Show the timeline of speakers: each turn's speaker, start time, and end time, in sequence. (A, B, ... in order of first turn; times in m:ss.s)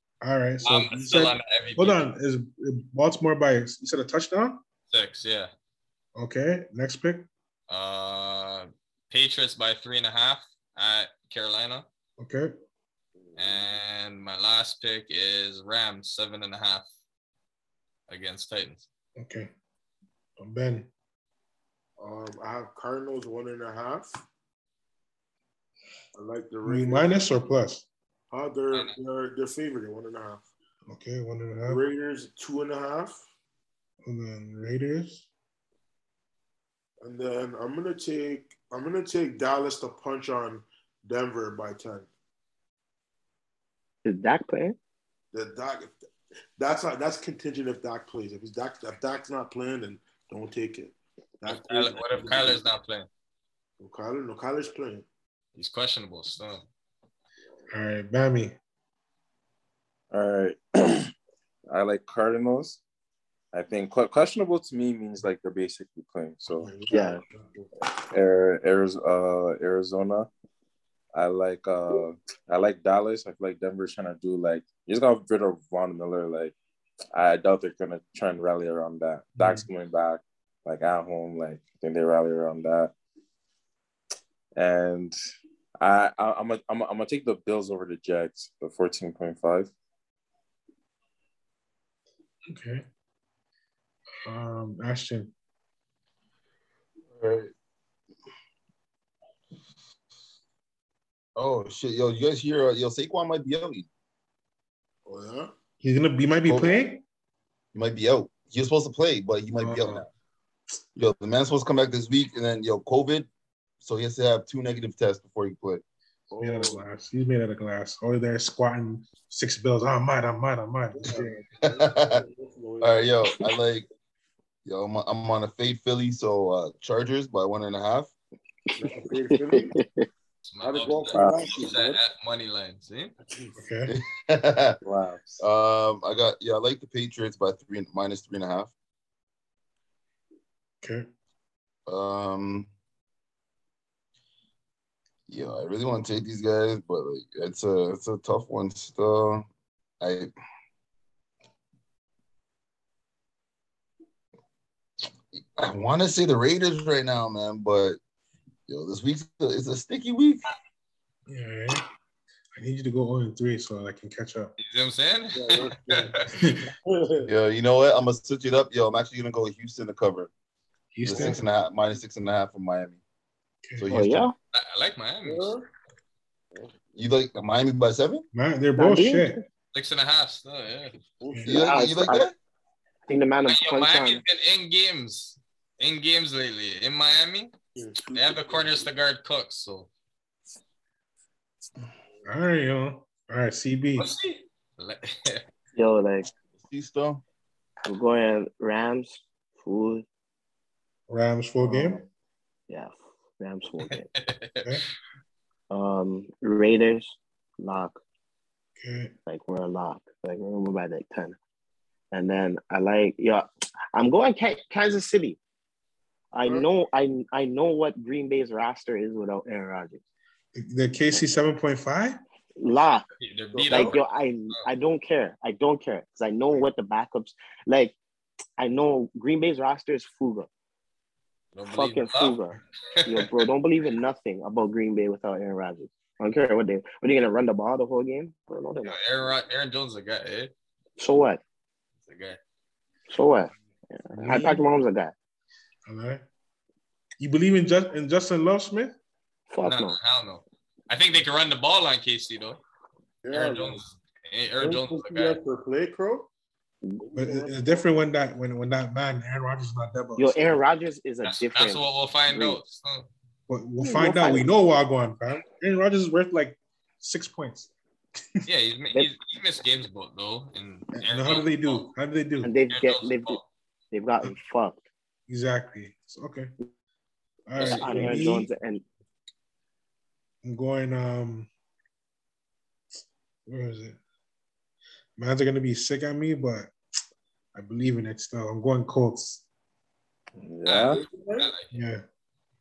0:00.2-0:04.6 A
0:00.6-0:02.0 B
0:04.9-0:05.5 B
0:06.2-0:07.3 A
0:07.7-0:11.8 B
0:12.2-0:12.6 A
0:13.2-0:13.8 C
0:13.4-0:16.8 B
0:18.1-0:18.8 B
0:19.2-0:19.5 A
0:20.4-0:20.9 A
0:22.0-0:24.1 C
0:26.1-0:27.2 C
0:26.6-0:27.8 A
0:28.3-0:30.4 C
0:30.9-0:31.8 A
0:31.6-0:33.2 C
0:34.0-0:35.2 A
0:37.0-0:42.1 C
0:44.0-0:44.8 D
0:45.3-0:46.0 C
0:46.6-0:52.7 C
0:51.4-0:53.1 B
0:53.8-0:55.0 C
0:55.5-0:56.6 B
0:57.7-0:58.5 A
1:00.1-1:01.1 E
1:01.7-1:02.8 E
1:03.5-1:06.7 E
1:06.6-1:07.7 C
1:06.9-1:07.2 D
1:08.1-1:10.3 E
1:11.1-1:16.5 E
1:17.1-1:22.9 E
1:19.4-1:19.7 A
1:24.5-1:25.1 E
1:25.8-1:29.7 E
1:32.5-1:32.8 A
1:34.2-1:35.3 A
1:37.1-1:37.5 F
1:41.4-1:43.9 F
1:45.0-1:45.5 C
1:45.8-1:47.0 A
1:46.4-1:46.8 F
1:47.7-1:50.1 F
1:49.6-1:50.0 A
1:51.0-1:53.3 F
1:53.8-1:55.8 F
1:56.3-1:56.8 C
1:56.4-2:01.4 A
2:00.9-2:03.1 C
2:01.6-2:02.2 F
2:02.8-2:03.8 F
2:04.6-2:08.1 F
2:08.8-2:09.7 C
2:09.3-2:10.1 D
2:10.5-2:13.1 B
2:10.6-2:12.0 C
2:11.1-2:11.6 E
2:13.6-2:13.9 A
2:13.9-2:14.8 F
2:14.8-2:15.4 E
2:15.4-2:18.7 F
2:20.8-2:21.1 A
2:21.9-2:22.7 F
2:25.3-2:29.4 F
2:30.0-2:30.3 F
2:35.3-2:38.0 F
2:38.7-2:40.4 F
2:41.3-2:41.8 A
2:42.6-2:44.5 A
2:44.6-2:46.2 B
2:45.3-2:46.3 C
2:46.2-2:46.7 A
2:46.8-2:47.3 C
2:47.2-2:50.3 F
2:50.9-2:51.4 A
2:51.0-2:53.0 F
2:53.6-2:53.9 A
2:53.8-2:54.3 F
2:53.9-2:54.3 D
2:54.5-2:55.5 B
2:55.2-2:55.6 C
2:56.9-2:58.2 F
2:58.3-2:59.4 A
2:58.8-2:59.4 D
2:59.7-3:01.0 B
3:01.2-3:02.0 C
3:01.3-3:01.6 A
3:01.5-3:02.3 F
3:01.5-3:02.2 D
3:03.1-3:04.2 D
3:03.5-3:07.5 B
3:07.7-3:08.9 C
3:08.1-3:09.9 B
3:12.2-3:14.1 A
3:14.0-3:15.4 B
3:15.8-3:16.3 D
3:16.6-3:17.2 F
3:17.8-3:20.0 D
3:21.1-3:22.0 A
3:21.6-3:22.0 D
3:22.7-3:24.1 D
3:23.9-3:24.7 B
3:25.7-3:28.0 D
3:28.8-3:29.1 A
3:29.3-3:31.4 D
3:32.1-3:35.4 D
3:36.3-3:40.0 D
3:40.5-3:42.2 A
3:42.6-3:43.0 D
3:43.2-3:44.0 B
3:43.5-3:44.0 C
3:43.7-3:48.0 D
3:48.6-3:50.5 D
3:51.5-3:52.4 B
3:51.7-3:59.3 D
3:53.0-3:53.4 B
3:58.8-4:00.5 B
4:01.0-4:01.4 D
4:02.0-4:02.4 B
4:03.1-4:05.1 D
4:04.1-4:04.6 A
4:05.9-4:06.2 A
4:07.2-4:08.9 A
4:09.5-4:10.0 D
4:09.6-4:12.6 B
4:13.2-4:13.8 C
4:13.3-4:15.4 B
4:14.6-4:16.3 C
4:17.0-4:17.8 C
4:17.1-4:20.6 A
4:20.2-4:22.6 D
4:21.2-4:23.1 B
4:23.5-4:27.7 A
4:23.8-4:24.5 D
4:28.4-4:31.9 B
4:30.9-4:32.5 A
4:32.4-4:33.4 D
4:32.7-4:33.4 B
4:33.9-4:34.8 D
4:35.3-4:36.5 A
4:37.5-4:38.5 A
4:37.6-4:38.0 B
4:37.6-4:38.8 D
4:40.4-4:41.5 A
4:43.4-4:44.0 A
4:45.2-4:46.7 A
4:47.5-4:49.4 A
4:50.4-4:51.0 E
4:50.6-4:51.7 B
4:50.9-4:51.5 C
4:51.7-4:52.0 A